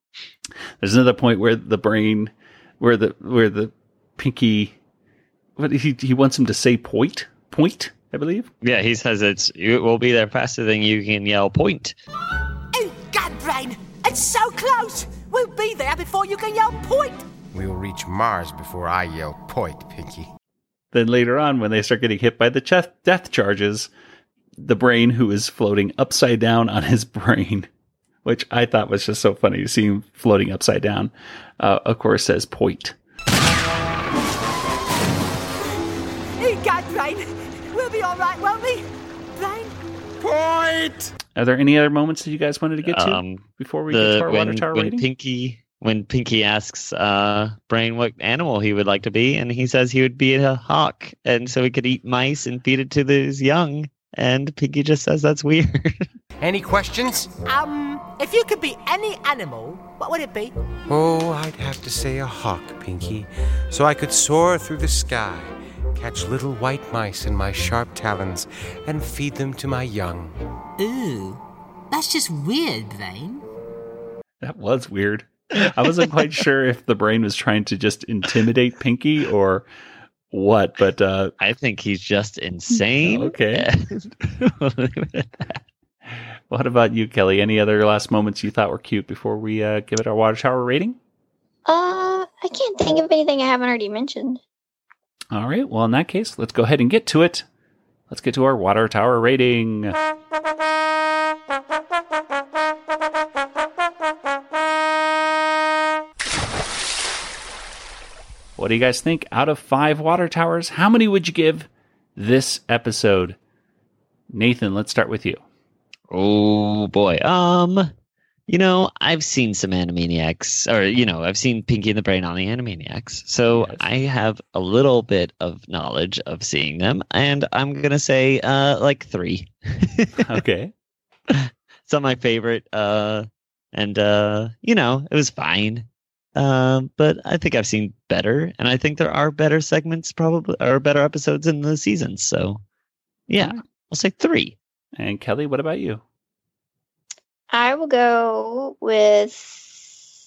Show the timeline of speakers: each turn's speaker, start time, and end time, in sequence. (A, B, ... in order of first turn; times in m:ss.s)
0:00.8-0:04.7 A
0:05.6-0:08.5 A
0:08.6-0:12.0 B
0:12.7-0:17.2 C
0:17.5-0:20.3 D
0:20.9-0:23.9 A
0:24.6-0:27.7 A
0:28.2-0:33.0 A
0:36.4-0:39.8 C
0:40.2-0:41.1 D
0:41.3-0:45.0 A
0:42.9-0:56.1 B
0:56.4-0:57.3 D
0:57.4-1:00.6 C
1:00.9-1:10.4 D
1:10.8-1:13.4 C
1:14.4-1:19.7 A
1:20.3-1:21.3 A
1:21.4-1:25.6 B
1:23.0-1:23.7 A
1:26.1-1:31.0 A
1:31.6-1:34.4 E
1:35.3-1:37.4 A
1:38.1-1:40.0 A
1:48.6-1:53.4 A
1:54.3-1:55.4 A
1:56.1-1:57.9 B
1:58.5-2:10.2 B
2:03.5-2:03.9 A
2:10.2-2:10.7 A
2:11.3-2:22.6 B
2:23.3-2:24.6 B
2:25.0-2:26.0 A
2:27.5-2:30.0 E